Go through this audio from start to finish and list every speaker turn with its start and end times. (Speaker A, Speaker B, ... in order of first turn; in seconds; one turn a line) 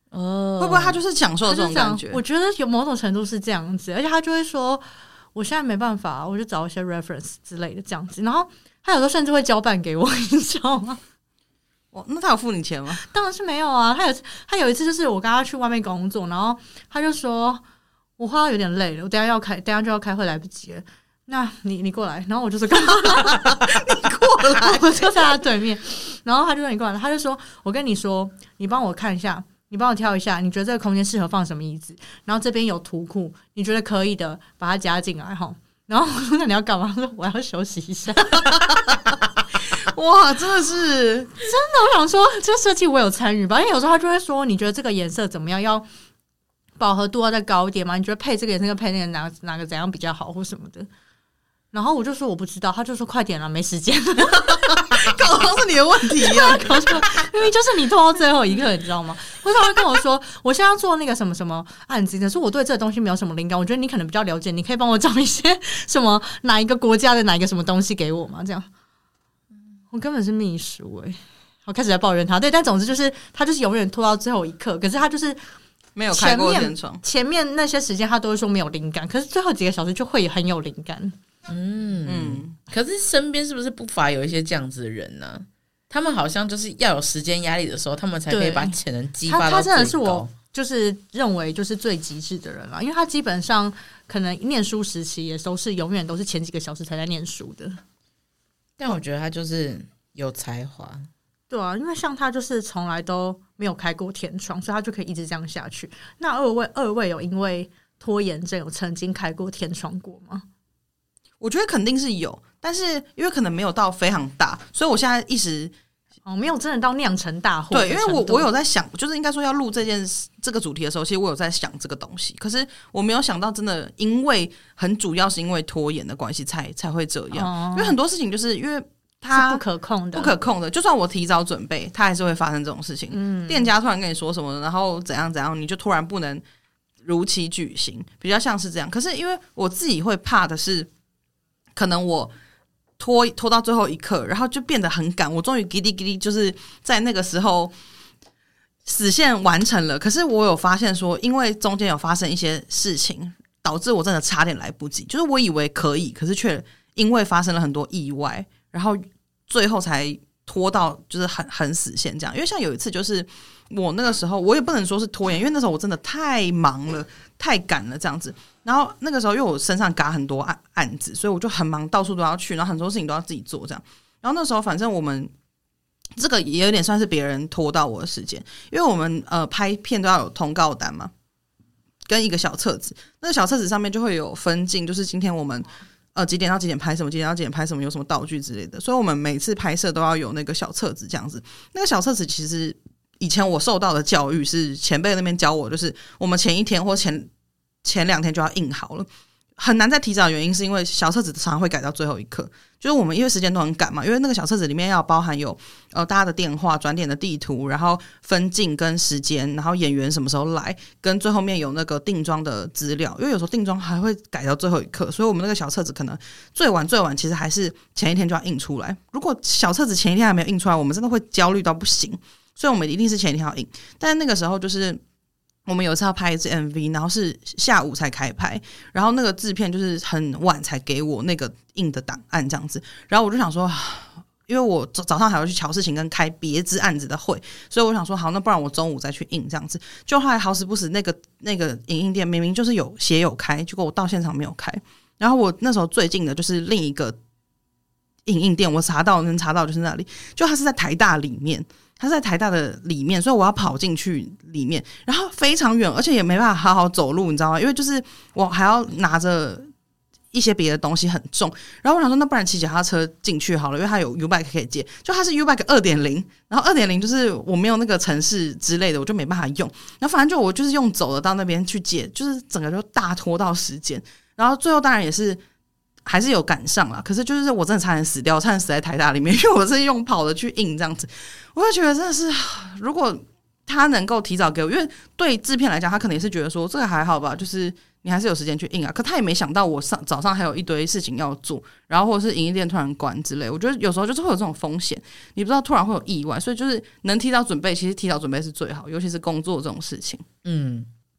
Speaker A: 0.1-1.0
Speaker B: 0.6-2.2
Speaker C: 1.5-11.0
Speaker B: 11.9-13.0
Speaker C: 13.0-17.6
Speaker C: 18.2-38.5
Speaker B: 39.7-41.3
Speaker C: 41.4-45.9
Speaker C: 46.8-50.9
Speaker C: 51.7-55.2
Speaker B: 54.3-57.3
Speaker C: 56.2-68.7
Speaker C: 69.9-75.4
Speaker B: 76.0-77.0
Speaker C: 76.1-81.2
Speaker A: 81.5-90.3
Speaker B: 82.1-82.5
Speaker C: 88.3-97.8
Speaker A: 98.8-101.1
Speaker C: 101.5-110.5
Speaker B: 111.4-115.7
Speaker C: 116.3-118.5
Speaker B: 117.7-129.6
Speaker C: 127.3-128.0
Speaker C: 129.3-130.3
Speaker B: 130.1-136.4
Speaker C: 133.1-133.7
Speaker B: 137.0-140.9
Speaker B: 141.8-142.3
Speaker B: 143.0-147.7
Speaker B: 148.9-175.3
Speaker B: 176.2-181.1
Speaker B: 182.1-197.3
Speaker B: 197.8-225.0
Speaker B: 225.7-247.2
Speaker B: 248.3-259.7
Speaker B: 260.3-275.4
Speaker B: 276.1-300.2
Speaker A: 300.4-300.9